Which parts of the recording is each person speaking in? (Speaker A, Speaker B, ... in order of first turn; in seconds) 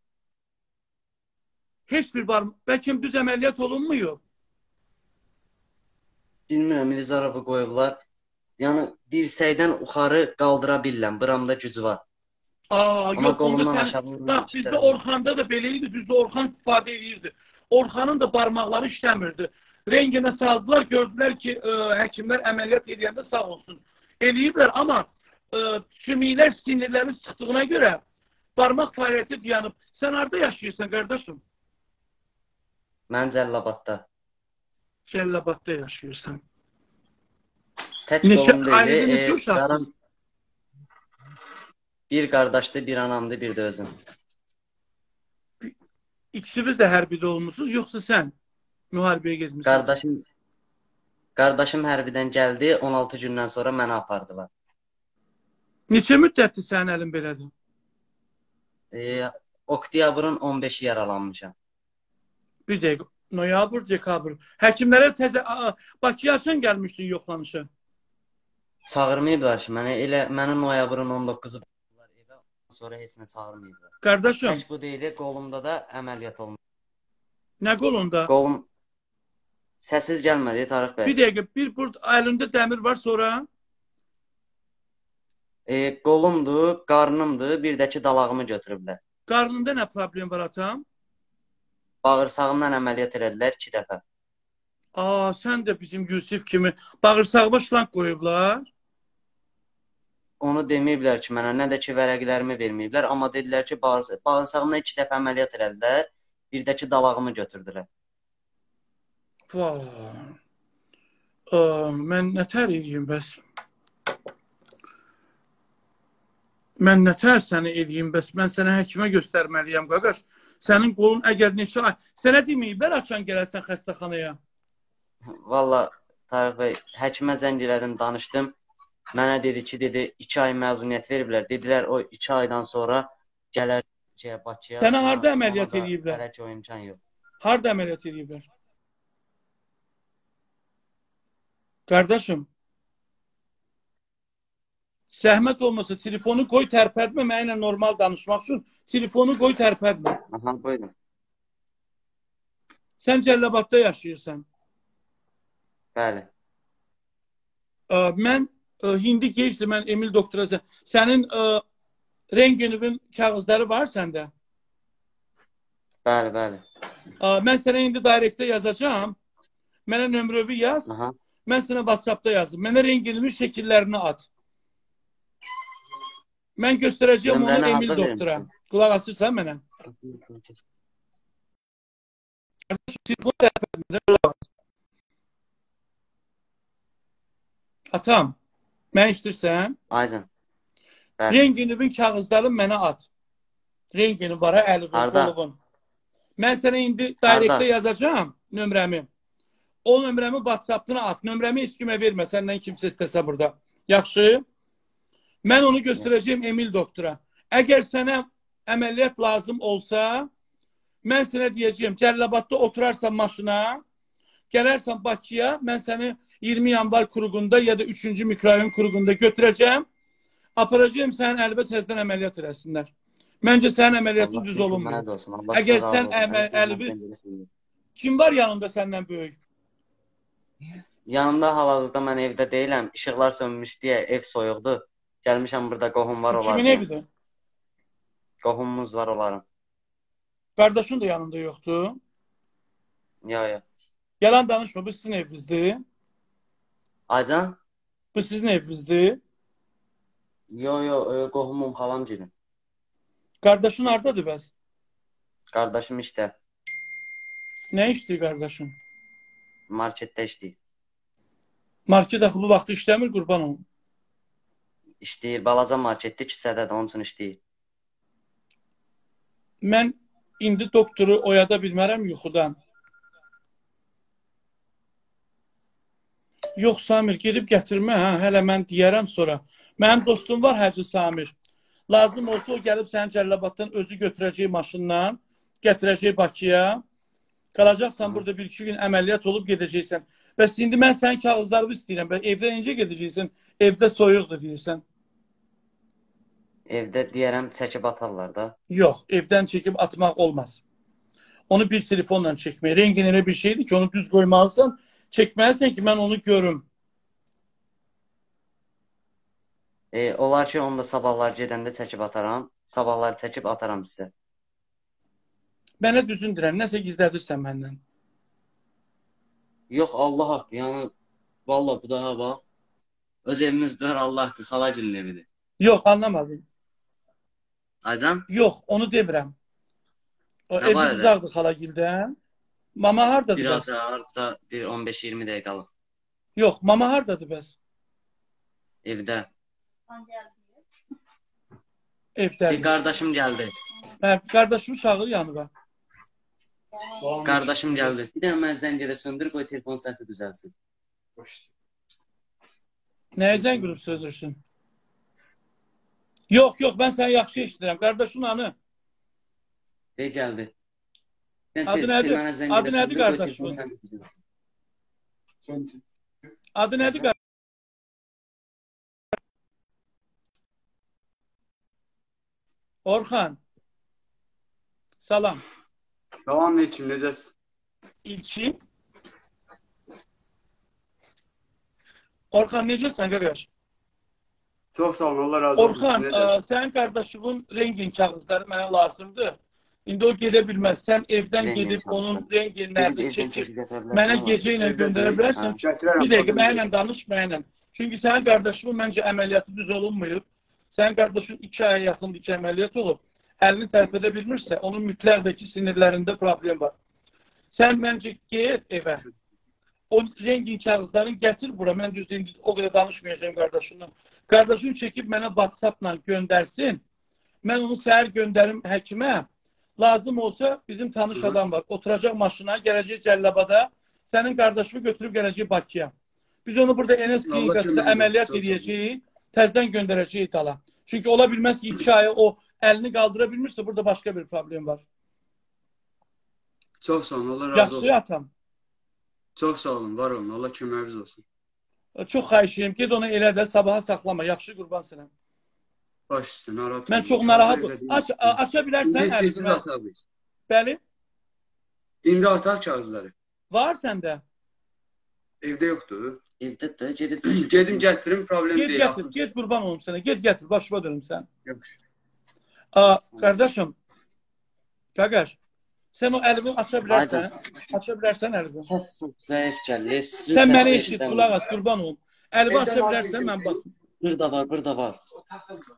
Speaker A: 1.9-4.2, 12.7-28.0, 28.6-31.4, 35.1-36.4, 38.2-39.8, 46.3-48.3, 48.9-49.9, 55.9-57.5, 62.7-67.7, 74.0-74.6, 77.6-78.3, 81.0-83.5, 89.3-90.8, 95.0-98.7, 109.5-110.3, 111.5-113.4, 116.8-124.4, 134.8-136.2, 137.4-138.4, 141.9-142.5, 145.1-150.2, 153.0-154.4, 157.9-161.6, 162.3-164.3, 167.2-169.2, 169.9-170.9, 171.5-174.3, 176.6-179.6, 182.7-184.5, 187.9-188.4, 188.9-189.8, 191.3-193.1, 193.9-195.6, 196.4-199.1, 199.8-204.4, 205.4-210.3, 211.0-213.8, 214.5-219.8, 220.6-222.9, 223.4-226.9, 228.0-229.4, 236.3-237.1, 240.6-242.0, 244.2-245.8, 248.2-249.2, 253.4-254.5, 257.7-258.7, 261.9-263.6, 269.6-272.6, 276.6-281.4, 281.9-286.8, 287.6-294.8, 298.7-300.6, 301.5-306.6, 315.8-317.8, 325.6-326.4, 328.3-329.3, 330.5-332.1, 332.8-333.6, 336.4-337.6, 342.2-342.7, 344.0-345.5, 353.2-354.4, 356.3-358.5, 361.7-363.6, 366.6-367.2, 372.9-373.4, 375.0-375.4, 378.1-378.6, 382.3-383.5, 385.6-400.2, 400.8-406.7, 407.6-409.0, 409.9-416.8, 417.4-419.3, 419.8-425.9, 426.5-434.8, 437.5-438.3, 442.0-445.1, 446.9-449.6, 450.5-450.8, 453.5-454.2, 458.5-461.3, 462.8-463.8, 465.0-465.4, 465.9-468.7, 470.3-473.7
Speaker B: 6.5-8.0, 8.6-12.0, 13.2-15.0, 33.1-34.0, 38.1-39.9, 42.1-43.9, 49.6-50.2, 51.4-54.5, 58.9-61.5, 68.9-76.6, 78.3-78.7, 79.8-81.2, 85.7-89.0, 92.0-94.0, 100.4-107.9, 125.3-128.6, 129.1-137.0, 150.3-150.9, 155.9-156.3, 166.1-166.6, 170.9-171.2, 177.3-178.5, 179.9-180.5, 189.9-190.3, 191.2-191.4, 194.9-195.3, 197.2-197.7, 224.2-227.5, 231.1-236.9, 238.4-239.4, 243.2-243.6, 247.1-247.6, 250.5-252.3, 255.5-256.3, 259.7-260.6, 265.0-267.4, 296.7-298.5, 309.9-314.1, 319.7-320.9, 321.5-322.4, 323.3-325.2, 327.8-328.2, 330.6-331.1, 333.4-335.7, 338.9-339.3, 342.5-343.6, 347.2-350.5, 360.0-360.5, 361.6-364.2, 391.4-394.4, 395.3-395.6, 456.4-457.8, 466.9-467.3, 468.6-471.3, 474.0-475.0
Speaker C: 347.0-348.1, 365.4-365.8, 376.2-377.3, 384.7-386.4, 394.6-396.6, 427.2-428.7, 436.8-437.9, 439.4-441.2, 446.1-450.0, 452.0-453.1, 455.4-456.2, 457.2-459.2, 461.5-461.7, 472.5-473.6